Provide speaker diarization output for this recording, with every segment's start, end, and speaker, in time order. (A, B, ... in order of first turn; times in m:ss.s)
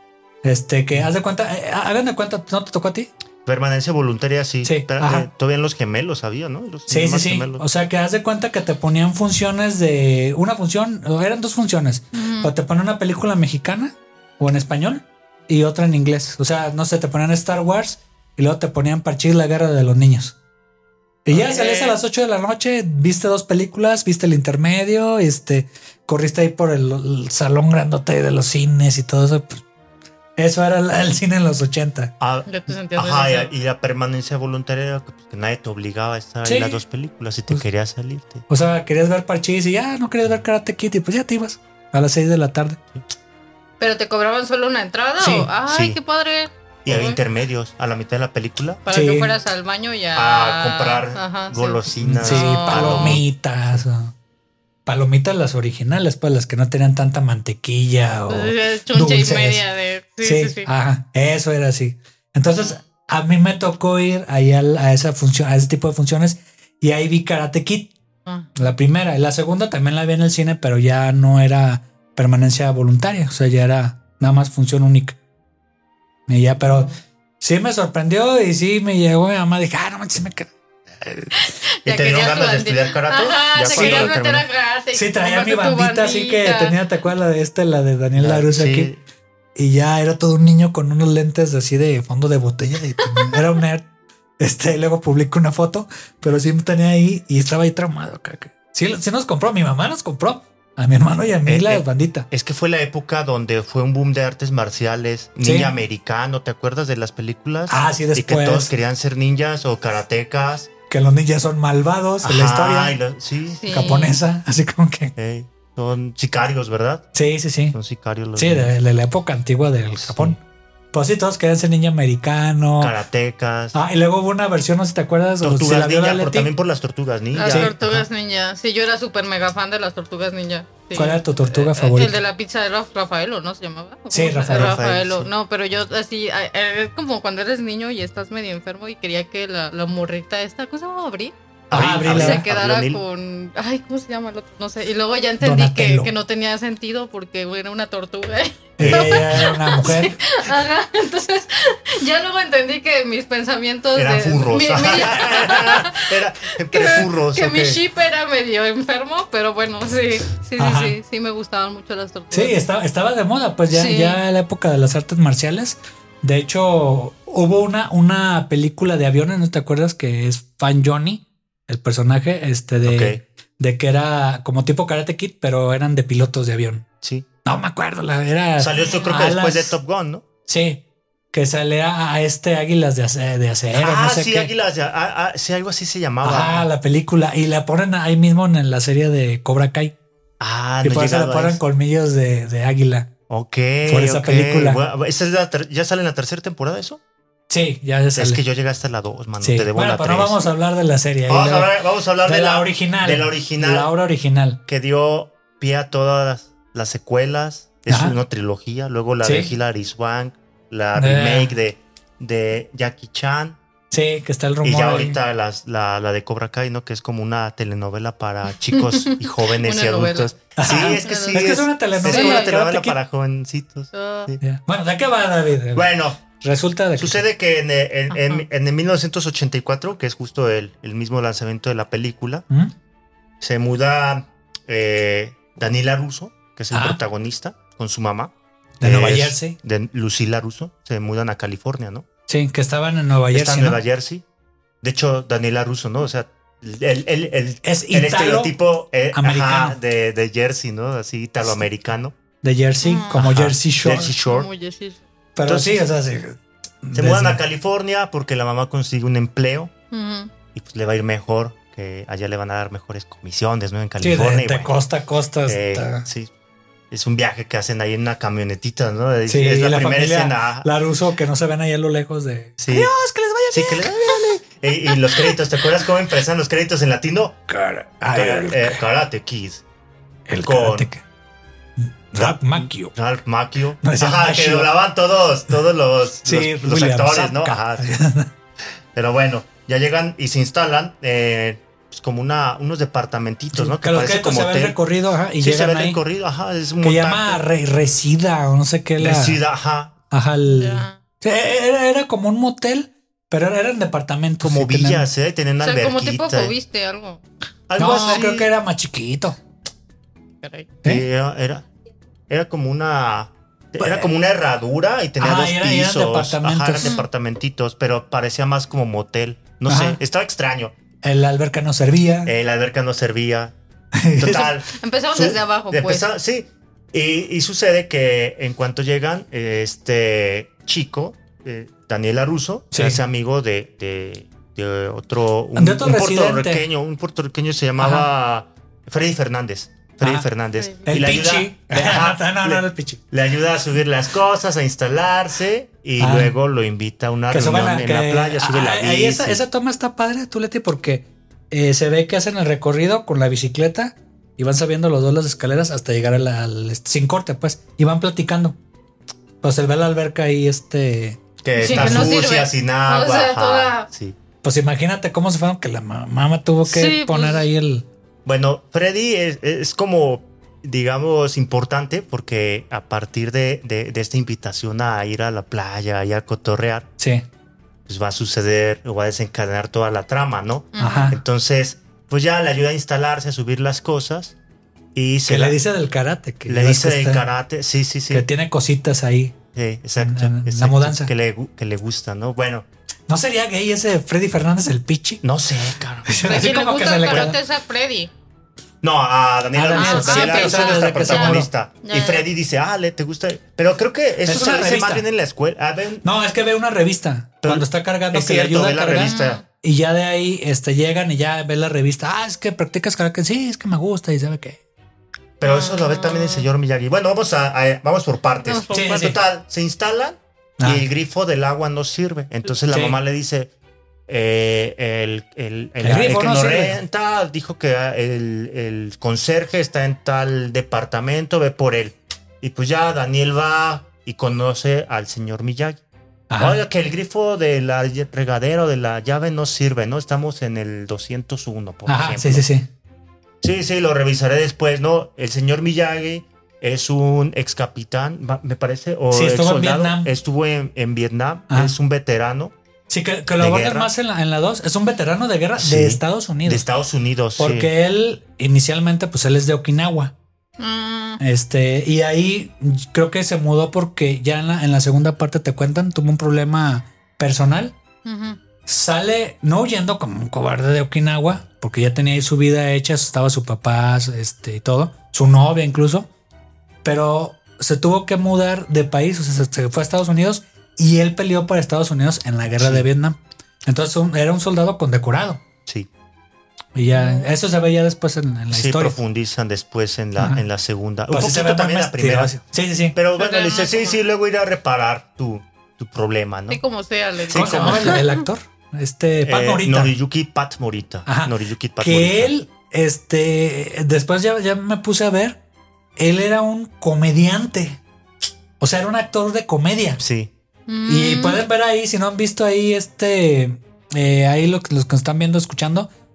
0:00.4-0:03.1 A
0:03.4-0:07.6 B
0:04.6-0:05.3 A
0:06.9-0:20.3 A
0:12.1-0:12.5 C
0:21.2-0:29.6 A
0:21.3-0:22.0 C
0:30.4-0:32.1 A
0:32.2-0:38.4 B
0:32.5-0:33.5 C
0:36.4-0:36.8 A
0:38.5-0:42.8 A
0:43.8-0:47.2 C
0:45.2-0:45.5 A
0:45.7-0:46.0 B
0:46.8-0:48.8 B
0:48.9-0:53.2 C
0:48.9-0:49.3 A
0:50.2-0:53.8 B
0:52.0-0:54.1 A
0:54.8-0:59.6 A
0:58.3-1:00.7 C
1:00.2-1:07.9 A
1:02.5-1:02.8 C
1:08.2-1:08.6 C
1:08.6-1:15.2 A
1:16.3-1:20.5 A
1:16.6-1:17.0 C
1:21.4-1:26.8 C
1:21.8-1:24.5 B
1:23.7-1:24.2 A
1:24.9-1:28.9 A
1:28.2-1:29.0 B
1:29.6-1:33.8 A
1:34.4-1:42.3 A
1:41.5-1:50.7 B
1:45.4-1:45.7 A
1:47.7-1:48.7 A
1:50.9-1:53.0 A
1:52.2-1:53.6 B
1:53.6-1:54.2 C
1:53.7-1:55.1 A
1:55.2-1:57.1 B
1:57.1-1:57.8 A
1:57.7-1:58.7 B
1:58.4-2:00.4 A
2:00.0-2:00.4 B
2:00.9-2:03.0 A
2:02.8-2:03.8 B
2:03.7-2:06.5 A
2:05.4-2:08.1 B
2:07.4-2:36.1 C
2:07.4-2:07.7 A
2:10.9-2:12.2 A
2:14.1-2:14.8 A
2:14.5-2:15.3 B
2:21.7-2:23.0 B
2:21.7-2:22.5 A
2:25.4-2:26.1 A
2:28.8-2:30.2 A
2:28.8-2:29.4 B
2:33.9-2:37.8 B
2:35.2-2:35.6 A
2:36.7-2:42.6 C
2:40.6-2:41.0 A
2:42.3-2:56.8 A
2:43.7-2:44.2 C
2:52.8-2:53.2 B
2:57.0-2:57.3 B
2:57.4-2:59.7 A
2:58.6-3:00.2 B
2:58.8-2:59.1 C
3:00.5-3:00.8 A
3:01.3-3:04.5 A
3:03.7-3:06.7 B
3:06.2-3:09.9 A
3:10.4-3:11.6 B
3:10.8-3:13.1 A
3:13.3-3:17.0 B
3:13.9-3:14.8 A
3:17.5-3:18.4 A
3:18.2-3:20.4 B
3:19.4-3:21.7 A
3:21.3-3:23.9 B
3:22.2-3:24.6 A
3:24.7-3:33.6 B
3:27.9-3:28.2 A
3:29.2-3:29.5 A
3:31.0-3:31.5 A
3:33.9-3:35.2 A
3:34.6-3:44.4 B
3:38.7-3:42.5 C
3:40.6-3:43.0 A
3:43.9-3:44.3 C
3:44.4-3:47.2 A
3:45.7-3:46.2 B
3:47.0-3:52.4 B
3:48.1-3:48.5 C
3:53.4-4:02.0 B
3:56.7-3:57.0 A
3:58.8-3:59.6 A
4:02.3-4:03.8 A
4:03.3-4:04.2 B
4:04.8-4:12.2 B
4:07.6-4:08.6 A
4:09.1-4:09.8 A
4:12.4-4:14.2 A
4:12.8-4:13.2 C
4:13.2-4:14.5 B
4:14.2-4:15.0 C
4:15.3-4:17.4 A
4:15.4-4:15.8 B
4:16.9-4:19.7 B
4:19.9-4:20.3 C
4:20.5-4:24.7 B
4:24.0-4:26.0 A
4:25.5-4:26.3 B
4:26.9-4:30.7 B
4:29.3-4:34.3 A
4:32.6-4:32.9 B
4:33.5-4:37.4 B
4:37.5-4:38.8 A
4:38.1-4:39.6 B
4:40.3-4:41.0 A
4:40.4-4:40.9 B
4:41.8-4:43.0 A
4:42.1-4:47.9 B
4:43.8-4:44.7 A
4:46.2-4:48.3 A
4:49.0-4:54.8 B
4:53.5-4:56.0 A
4:55.4-4:57.4 B
4:56.8-4:59.4 A
4:59.0-5:00.0 B
5:00.1-5:05.1 A
5:00.5-5:01.0 C
5:04.4-5:06.6 B
5:05.6-5:07.2 C
5:07.7-5:08.5 B
5:07.8-5:09.4 A
5:07.8-5:08.2 C
5:10.4-5:10.7 C
5:10.8-5:11.6 B
5:12.3-5:20.7 B
5:13.8-5:14.1 A
5:15.2-5:16.9 A
5:19.7-5:20.0 A
5:21.0-5:22.3 A
5:22.2-5:23.6 B
5:24.0-5:24.5 A
5:24.2-5:49.4 B
5:24.3-5:26.1 C
5:32.7-5:33.0 A
5:35.6-5:36.6 A
5:37.8-5:38.1 A
5:40.6-5:40.9 C
5:40.9-5:43.0 A
5:46.0-5:46.3 A
5:47.3-5:58.6 A
5:59.4-6:02.1 A
6:01.4-6:04.2 B
6:01.6-6:03.9 C
6:04.4-6:07.9 A
6:06.6-6:07.4 C
6:08.2-6:16.9 B
6:17.0-6:17.2 A
6:17.9-6:24.4 B
6:20.7-6:21.2 C
6:20.8-6:21.2 A
6:25.0-6:25.6 B
6:25.3-6:27.2 A
6:26.5-6:28.3 B
6:28.1-6:29.3 A
6:29.5-6:32.7 B
6:30.0-6:31.1 A
6:33.1-6:35.2 A
6:35.2-6:36.5 B
6:36.1-6:37.4 A
6:36.2-6:38.1 C
6:38.8-6:46.0 B
6:39.6-6:41.5 A
6:39.8-6:42.2 C
6:44.2-6:45.1 A
6:46.0-6:54.6 A
6:47.4-6:49.4 B
6:49.0-6:49.4 C
6:55.4-7:03.5 B
6:55.4-6:56.5 C
6:58.4-6:59.1 C
6:58.7-6:59.2 A
7:00.6-7:00.9 A
7:02.7-7:03.0 A
7:04.1-7:15.8 B
7:05.8-7:06.8 A
7:16.3-7:16.6 A
7:16.4-7:22.5 B
7:21.9-7:22.7 A
7:23.4-7:32.6 B
7:29.1-7:30.1 A
7:31.5-7:31.8 A
7:32.9-7:36.6 A
7:33.4-7:33.9 B
7:35.6-7:37.7 B
7:37.4-7:40.1 A
7:40.6-7:41.2 C
7:41.2-7:47.8 A
7:48.0-7:48.4 C
7:48.6-7:56.1 A
7:56.8-8:05.4 A
8:02.6-8:02.9 B
8:06.8-8:09.0 A
8:06.9-8:07.3 C
8:08.5-8:12.4 B
8:10.2-8:10.4 A
8:11.1-8:13.0 A
8:12.9-8:16.6 B
8:13.2-8:14.0 C
8:16.5-8:18.2 C
8:17.3-8:18.0 B
8:17.3-8:19.9 A
8:19.2-8:22.3 B
8:21.1-8:25.4 A
8:26.0-8:27.8 A
8:28.6-8:30.0 A
8:30.0-8:30.3 B
8:30.7-8:31.4 C
8:30.9-8:35.9 A